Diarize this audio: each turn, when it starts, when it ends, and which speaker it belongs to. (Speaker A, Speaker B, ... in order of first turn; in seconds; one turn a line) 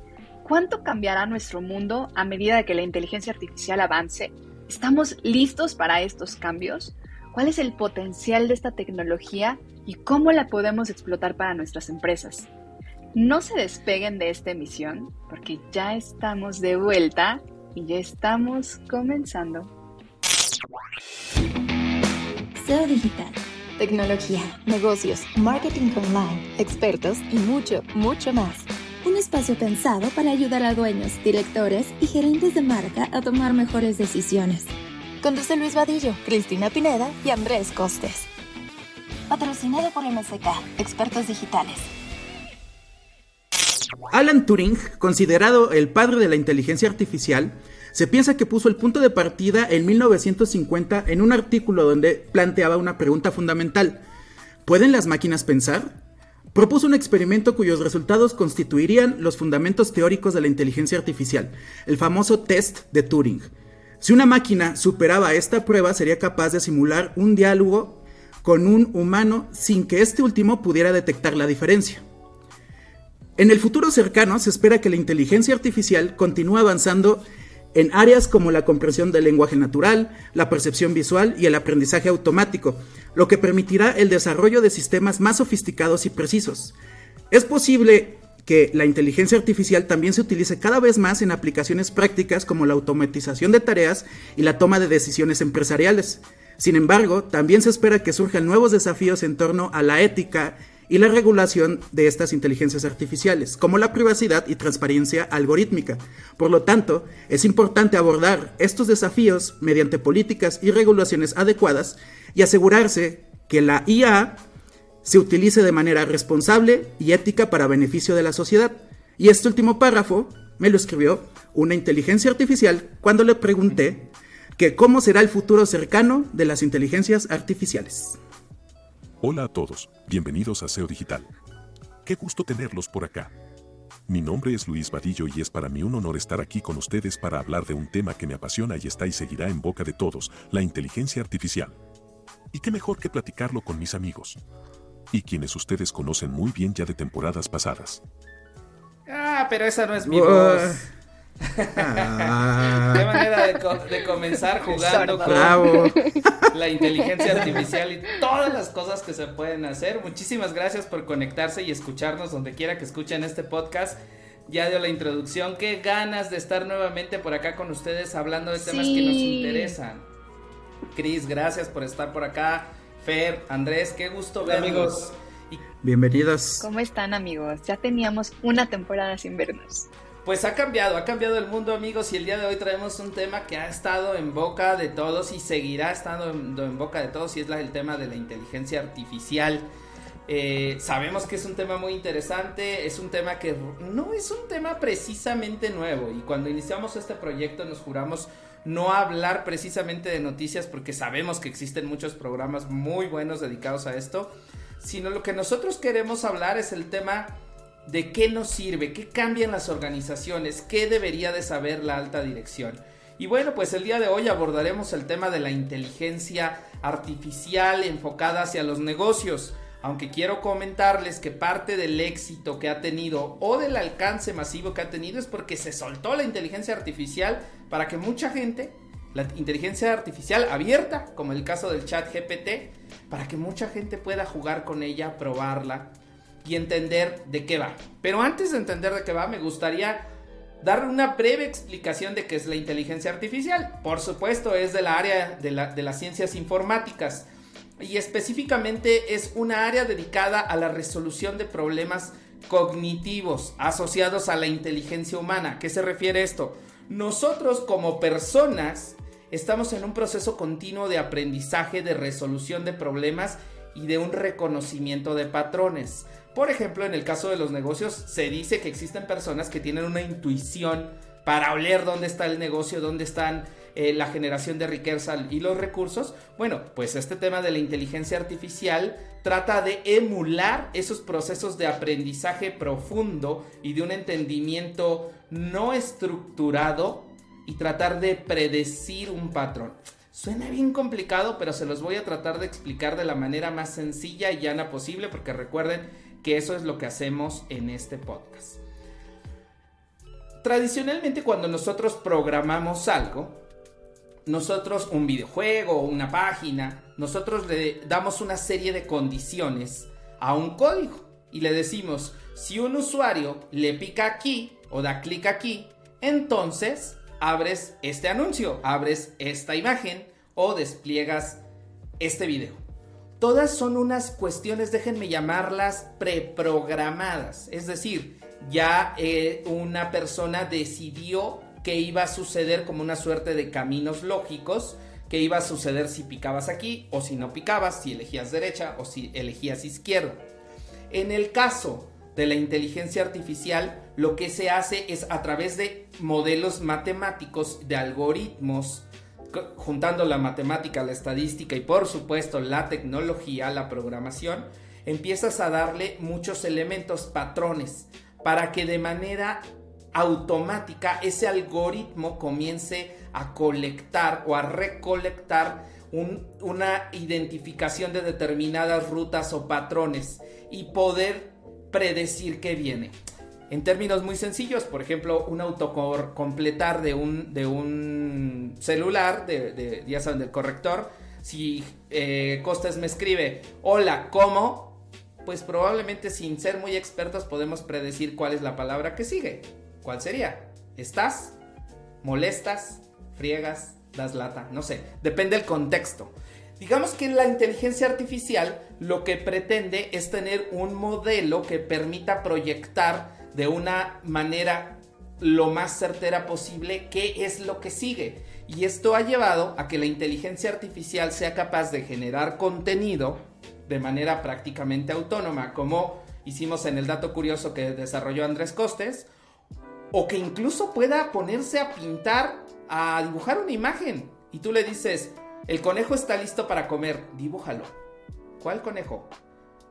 Speaker A: 0.4-12.5
Speaker A: 13.1-19.7
Speaker B: 22.6-34.7
Speaker B: 35.2-38.3
Speaker B: 39.3-41.9
Speaker C: 44.1-54.0
Speaker C: 54.6-56.0
Speaker C: 56.5-63.5
Speaker C: 64.0-72.0
Speaker C: 73.4-77.2
Speaker C: 77.7-86.7
Speaker C: 87.3-114.4
Speaker C: 115.0-128.2
Speaker D: 129.2-131.3
Speaker D: 132.0-133.3
Speaker D: 134.1-141.7
Speaker D: 142.5-144.4
Speaker D: 145.1-148.0
Speaker E: 149.1-150.9
Speaker C: 150.0-150.9
Speaker E: 151.5-155.7
Speaker C: 151.7-153.1
Speaker A: 154.7-155.9
Speaker C: 154.9-156.5
Speaker E: 156.5-170.0
Speaker C: 157.3-157.5
Speaker A: 168.6-169.7
Speaker E: 170.9-175.6
Speaker C: 174.4-175.0
Speaker C: 175.8-176.7
Speaker A: 176.6-179.9
Speaker E: 180.2-189.7
Speaker E: 190.3-235.9
Speaker E: 236.4-240.1
Speaker E: 240.6-247.3
Speaker E: 247.8-298.6
Speaker E: 300.4-303.4
Speaker E: 304.2-321.4
Speaker E: 322.0-322.6
Speaker E: 323.2-340.2
Speaker E: 340.9-372.9
Speaker E: 373.5-391.4
Speaker E: 392.0-419.1
Speaker E: 419.9-427.7
Speaker E: 428.4-429.1